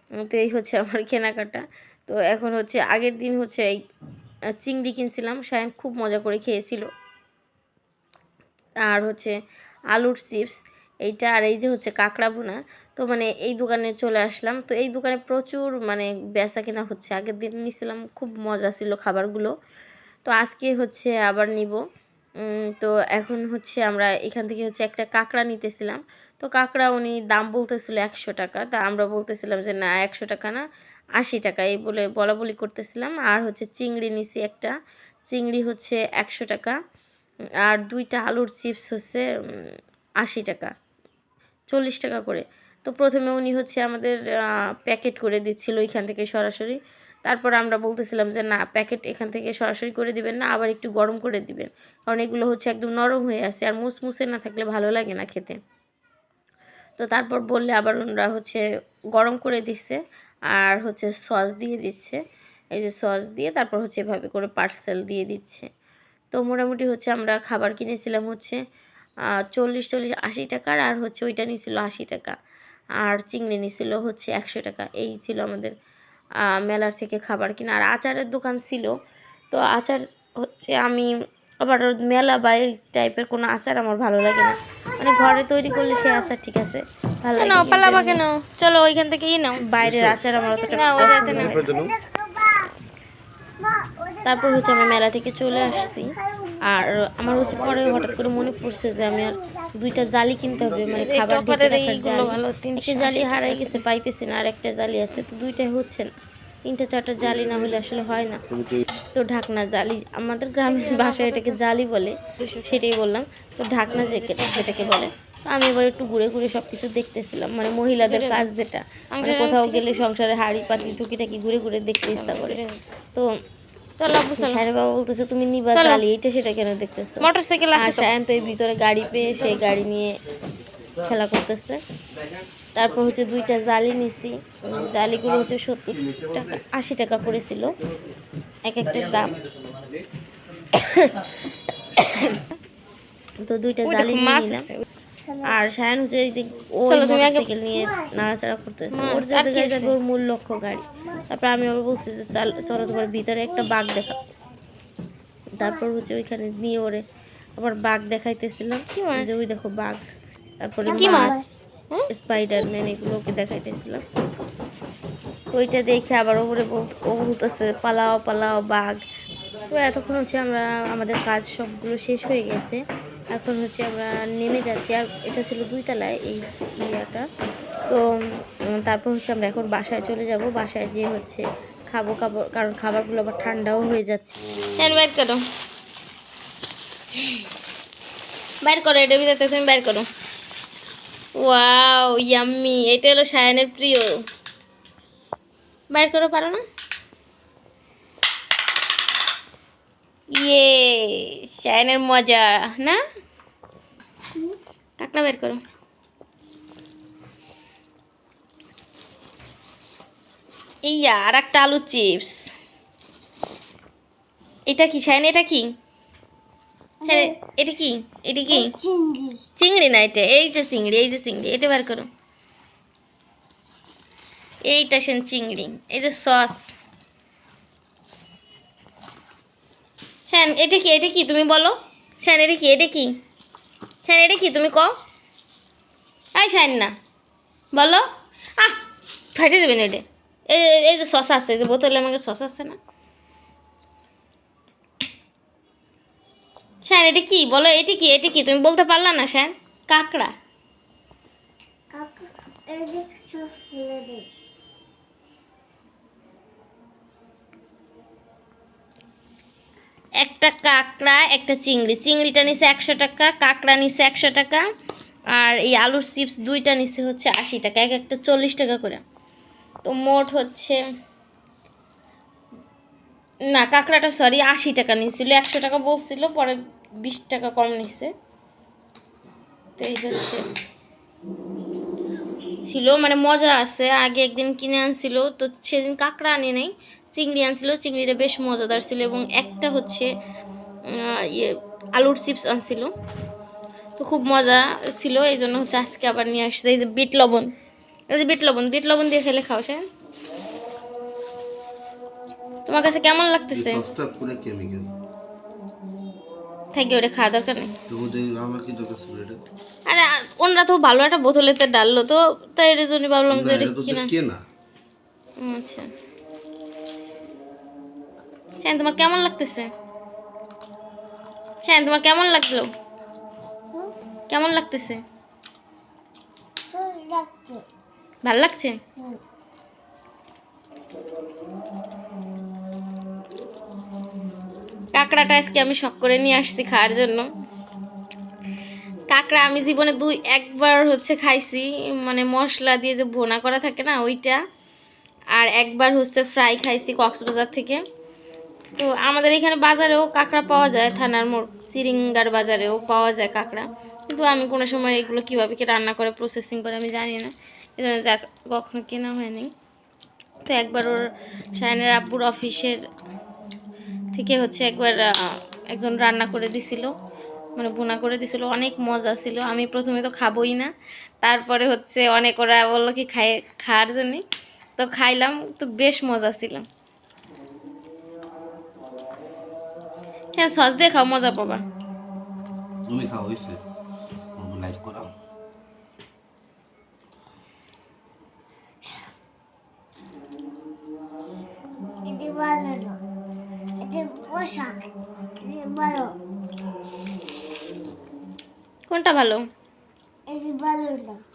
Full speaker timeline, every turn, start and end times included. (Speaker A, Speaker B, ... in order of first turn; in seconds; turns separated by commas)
Speaker A: 0.2-3.8, Speaker A: 4.5-6.9, Speaker A: 8.8-9.3, Speaker A: 9.9-19.5, Speaker A: 20.2-21.8, Speaker A: 22.4-30.6, Speaker A: 31.2-34.7, Speaker A: 35.3-36.8, Speaker A: 37.6-39.7, Speaker A: 40.2-40.7, Speaker A: 41.7-55.6, Speaker A: 57.0-60.0, Speaker A: 60.5-62.2, Speaker A: 62.7-65.7, Speaker A: 66.3-68.6, Speaker A: 69.5-72.3, Speaker A: 73.0-75.7, Speaker A: 76.5-78.9, Speaker A: 79.5-88.2, Speaker B: 87.3-89.6, Speaker A: 89.6-91.6, Speaker C: 89.8-90.2, Speaker B: 90.7-91.7, Speaker C: 91.3-92.0, Speaker D: 92.1-92.7, Speaker D: 93.6-94.2, Speaker A: 94.2-106.1, Speaker B: 100.9-103.8, Speaker A: 106.6-108.4, Speaker A: 109.1-122.6, Speaker B: 110.7-111.6, Speaker B: 112.4-112.7, Speaker B: 118.0-118.4, Speaker B: 119.1-120.0, Speaker B: 122.1-122.8, Speaker B: 124.0-124.6, Speaker A: 124.3-130.1, Speaker B: 125.7-126.0, Speaker B: 127.2-128.1, Speaker A: 131.0-131.8, Speaker A: 132.7-137.7, Speaker A: 138.6-139.4, Speaker A: 143.4-144.7, Speaker B: 143.8-144.8, Speaker A: 145.4-154.2, Speaker B: 146.9-147.5, Speaker B: 148.9-149.9, Speaker A: 155.6-157.0, Speaker A: 157.6-160.0, Speaker B: 158.9-159.4, Speaker A: 160.6-161.4, Speaker B: 160.8-162.1, Speaker D: 161.0-161.3, Speaker A: 162.1-164.0, Speaker A: 165.5-169.0, Speaker A: 169.7-177.3, Speaker A: 178.6-184.4, Speaker B: 184.7-185.4, Speaker B: 188.6-190.1, Speaker B: 191.3-194.2, Speaker B: 195.9-196.6, Speaker B: 200.3-203.0, Speaker B: 205.0-205.6, Speaker B: 210.8-212.5, Speaker B: 214.7-215.7, Speaker D: 217.0-217.4, Speaker B: 217.0-218.7, Speaker D: 218.5-219.4, Speaker B: 219.6-222.1, Speaker B: 224.6-226.7, Speaker B: 230.3-233.2, Speaker B: 234.0-234.9, Speaker B: 236.3-236.9, Speaker B: 237.7-238.0, Speaker B: 239.3-242.8, Speaker B: 246.8-250.3, Speaker D: 251.9-254.3, Speaker B: 260.2-264.6, Speaker B: 265.3-269.0, Speaker B: 269.9-270.8, Speaker B: 273.5-278.1, Speaker B: 279.8-280.4, Speaker B: 282.6-290.1, Speaker B: 290.9-292.9, Speaker B: 294.0-297.5, Speaker B: 298.1-299.9, Speaker B: 302.6-303.9, Speaker C: 303.5-304.9, Speaker B: 306.7-307.7, Speaker C: 307.9-309.4, Speaker B: 309.9-314.1, Speaker C: 313.3-314.4, Speaker B: 315.4-315.9, Speaker B: 318.6-319.7, Speaker B: 321.6-322.7, Speaker B: 324.3-325.0, Speaker D: 326.7-327.6, Speaker B: 328.2-328.8, Speaker B: 334.9-337.2, Speaker B: 339.1-344.4, Speaker B: 345.3-347.8, Speaker B: 348.8-359.5, Speaker B: 360.4-361.0, Speaker B: 361.5-362.8, Speaker B: 364.1-366.9, Speaker B: 367.6-370.7, Speaker B: 371.2-374.2, Speaker B: 374.8-376.6, Speaker B: 380.3-381.6, Speaker C: 382.9-383.6, Speaker C: 384.4-385.1, Speaker D: 392.0-393.0, Speaker D: 393.8-394.8, Speaker D: 395.4-396.2, Speaker B: 398.9-399.4, Speaker D: 400.3-401.2